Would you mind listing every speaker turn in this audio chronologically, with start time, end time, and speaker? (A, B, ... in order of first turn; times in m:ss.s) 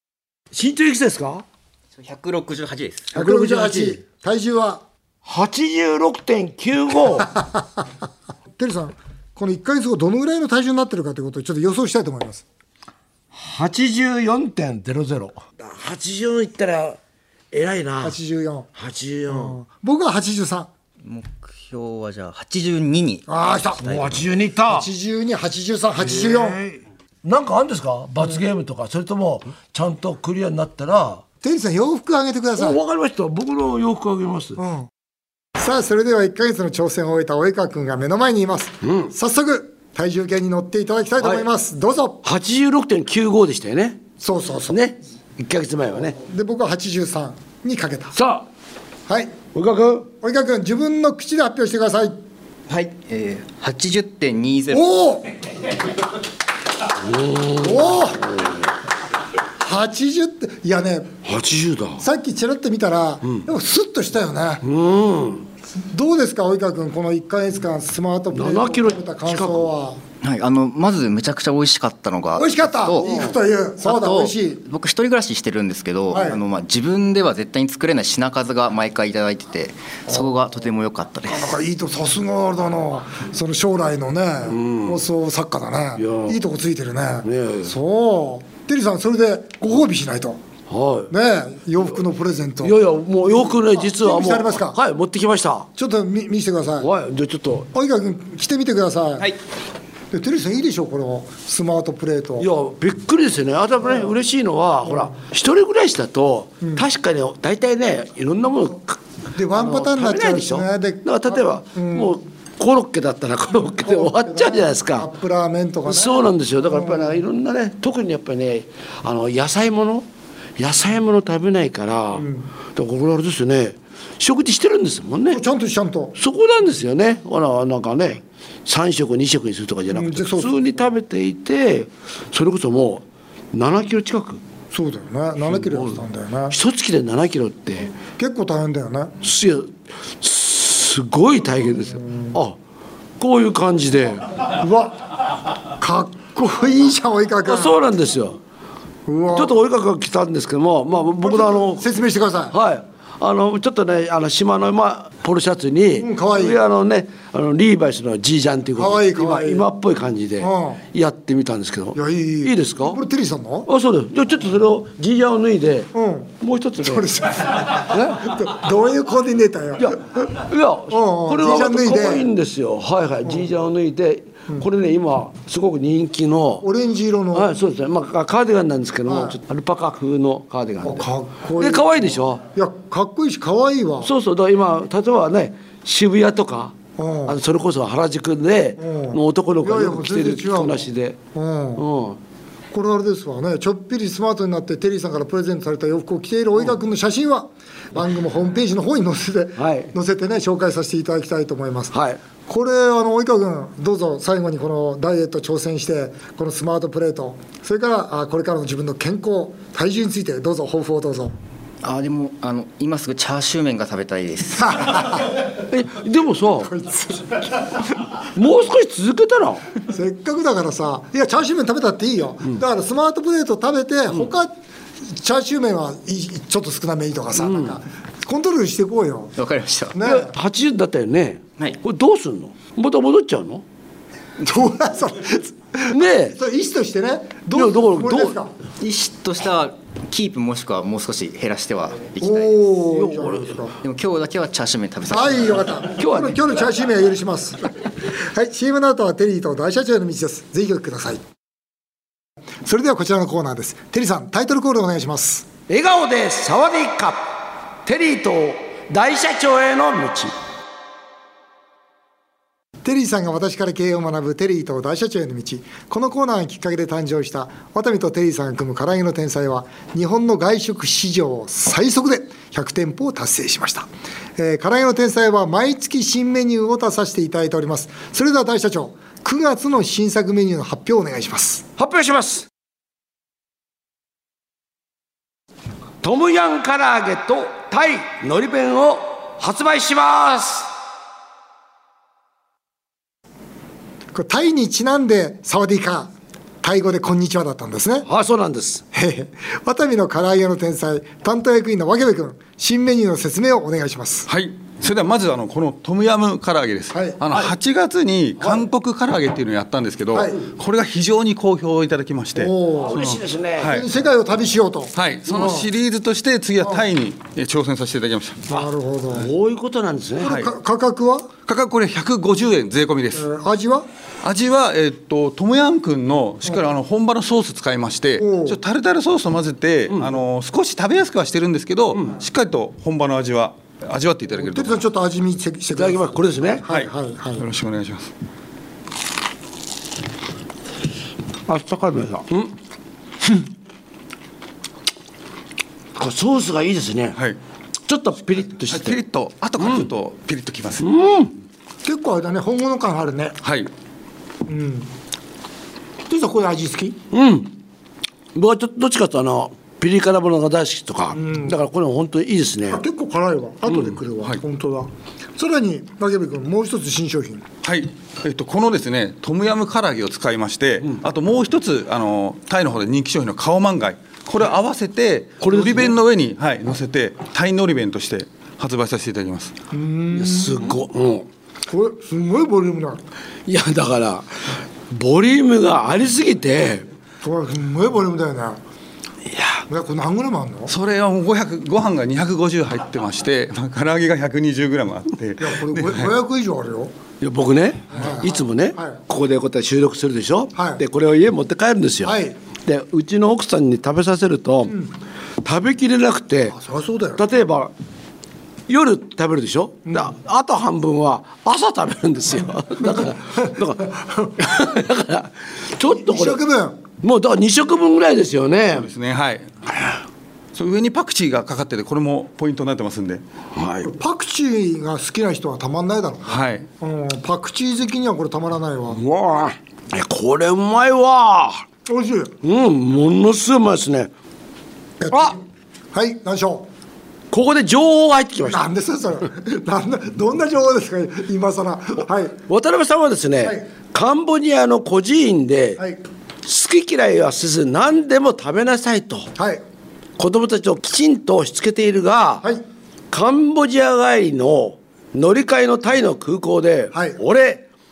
0:00.5-0:01.4 A
0:02.0-0:03.1 B
0:03.1-0:04.0 A
0:03.1-0:04.8 C
0:05.2-0:07.3 A
0:07.4-0:07.6 C
0:08.5-0:12.4 C
0:13.3-0:17.0 A
0:17.5-0:18.2 A
0:18.0-0:18.7 C
0:18.7-0:19.6 A
0:19.3-0:20.7 C
0:21.0-0:24.2 B
0:23.3-0:23.8 C
0:23.8-0:24.9 A
0:24.7-0:26.6 C
0:26.0-0:31.2 A
0:31.4-0:32.8 C
0:32.6-0:34.6 A
0:34.6-0:34.9 C
0:35.6-0:42.2 C
0:38.8-0:39.1 A
0:41.2-0:41.4 A
0:42.2-0:44.0 A
0:44.2-0:44.8 C
0:44.7-0:46.2 A
0:46.2-0:48.2 C
0:48.2-0:48.4 A
0:49.1-0:49.4 C
0:49.5-0:50.1 A
0:50.2-0:52.2 C
0:52.7-0:54.9 B
0:54.7-0:55.3 C
0:57.0-0:58.5 A
0:57.5-0:58.3 C
0:59.6-1:01.2 C
1:01.2-1:02.0 A
1:02.0-1:04.6 C
1:04.6-1:05.4 A
1:05.9-1:10.0 C
1:08.3-1:09.7 A
1:10.2-1:13.2 B
1:12.4-1:14.6 C
1:13.0-1:13.3 A
1:13.8-1:21.6 B
1:16.1-1:16.4 C
1:21.3-1:30.4 C
1:24.5-1:25.0 A
1:26.0-1:26.4 A
1:27.2-1:27.7 A
1:30.7-1:31.1 A
1:31.1-1:32.8 C
1:32.6-1:35.7 A
1:33.3-1:34.8 C
1:35.8-1:36.9 C
1:36.8-1:37.7 A
1:37.7-1:39.3 C
1:40.1-1:42.5 C
1:42.4-1:49.0 A
1:49.4-1:52.2 C
1:49.5-1:55.1 A
1:53.8-1:57.2 C
1:55.9-2:00.0 A
2:00.6-2:05.4 A
2:02.2-2:02.5 C
2:05.3-2:06.1 C
2:06.2-2:14.4 A
2:09.9-2:10.6 C
2:14.7-2:16.6 C
2:15.5-2:17.9 A
2:18.2-2:19.1 C
2:19.2-2:22.6 A
2:22.0-2:22.4 C
2:23.2-2:24.3 A
2:24.6-2:25.1 C
2:25.7-2:27.8 C
2:27.4-2:28.4 A
2:29.1-2:29.5 C
2:29.3-2:31.9 A
2:31.1-2:32.5 C
2:32.5-2:43.0 A
2:36.0-2:36.6 C
2:38.8-2:39.7 C
2:40.4-2:40.8 C
2:41.9-2:43.7 C
2:43.7-2:48.4 A
2:45.9-2:50.0 C
2:49.8-2:56.6 A
2:50.9-2:52.3 C
2:56.6-2:57.5 C
2:57.3-3:01.0 A
2:59.1-2:59.4 C
3:00.8-3:04.1 C
3:01.6-3:02.4 A
3:04.0-3:06.8 A
3:07.0-3:07.4 C
3:07.3-3:11.2 A
3:08.8-3:11.8 C
3:11.8-3:12.2 A
3:12.7-3:21.9 C
3:19.6-3:19.9 A
3:21.9-3:22.2 A
3:22.5-3:31.3 C
3:31.8-3:35.0 B
3:34.6-3:35.2 C
3:35.6-3:36.7 A
3:36.6-3:37.4 C
3:38.3-3:39.6 A
3:39.8-3:44.5 C
3:45.0-3:49.3 C
3:47.4-3:47.8 A
3:49.4-3:50.0 B
3:49.9-3:50.3 C
3:50.0-3:53.6 A
3:54.4-3:58.5 C
3:55.9-3:56.4 A
3:57.5-3:58.4 A
3:58.8-4:02.7 B
4:02.2-4:03.7 C
4:02.9-4:03.6 A
4:03.8-4:05.7 B
4:05.1-4:11.2 C
4:05.9-4:06.6 A
4:12.6-4:15.5 C
4:15.7-4:20.3 A
4:22.8-4:41.6 C
4:41.8-4:42.4 A
4:46.0-4:50.7 A
4:54.1-4:58.1 C
4:58.1-4:58.8 A
4:58.9-5:04.3 C
5:04.3-5:13.8 D
5:06.9-5:07.2 C
5:10.1-5:10.4 C
5:12.4-5:13.1 C
5:12.8-5:13.8 A
5:13.6-5:15.7 C
5:15.0-5:18.5 D
5:18.5-5:19.3 C
5:18.5-5:20.4 A
5:20.2-5:21.3 C
5:20.2-5:20.5 D
5:21.4-5:23.2 D
5:23.1-5:23.8 C
5:24.2-5:34.8 D
5:28.2-5:28.6 C
5:34.4-5:37.4 C
5:35.7-5:36.6 A
5:36.7-5:38.1 D
5:41.5-5:42.5 A
5:46.0-5:47.2 A
5:47.9-5:49.0 A
5:48.7-5:50.8 D
5:49.6-5:49.9 A
5:50.8-5:51.3 A
5:51.8-5:53.4 C
5:53.4-5:53.7 D
5:54.4-5:54.9 C
5:56.1-5:57.0 C
5:57.1-5:57.5 A
5:58.3-6:02.8 A
6:01.1-6:01.5 C
6:02.7-6:07.4 C
6:07.6-6:19.5 D
6:15.4-6:15.9 A
6:19.7-6:20.7 C
6:20.1-6:21.3 A
6:21.7-6:23.0 C
6:23.5-6:26.8 A
6:27.2-6:28.6 C
6:29.2-6:29.6 A
6:29.7-6:30.7 C
6:30.7-6:36.1 D
6:35.4-6:36.9 C
6:37.2-6:44.8 A
6:37.9-6:39.0 C
6:40.5-6:40.8 C
6:42.0-6:42.3 C
6:45.4-6:46.6 A
6:46.5-6:47.2 C
6:47.2-6:47.7 A
6:48.7-6:56.4 A
6:49.9-6:50.1 C
6:52.9-6:54.5 C
6:55.9-6:56.8 C
6:57.0-6:58.9 A
6:58.8-6:59.6 D
7:00.5-7:03.2 D
7:03.5-7:03.9 A
7:03.8-7:09.0 C
7:06.3-7:06.7 D
7:08.9-7:11.6 A
7:11.9-7:12.3 C
7:12.4-7:14.1 A
7:15.0-7:15.4 C
7:15.9-7:16.7 C
7:17.3-7:18.6 A
7:18.4-7:22.4 C
7:22.5-7:25.8 A
7:26.4-7:29.3 A
7:29.4-7:29.6 C
7:30.2-7:32.4 A
7:33.1-7:37.6 A
7:36.9-7:37.2 C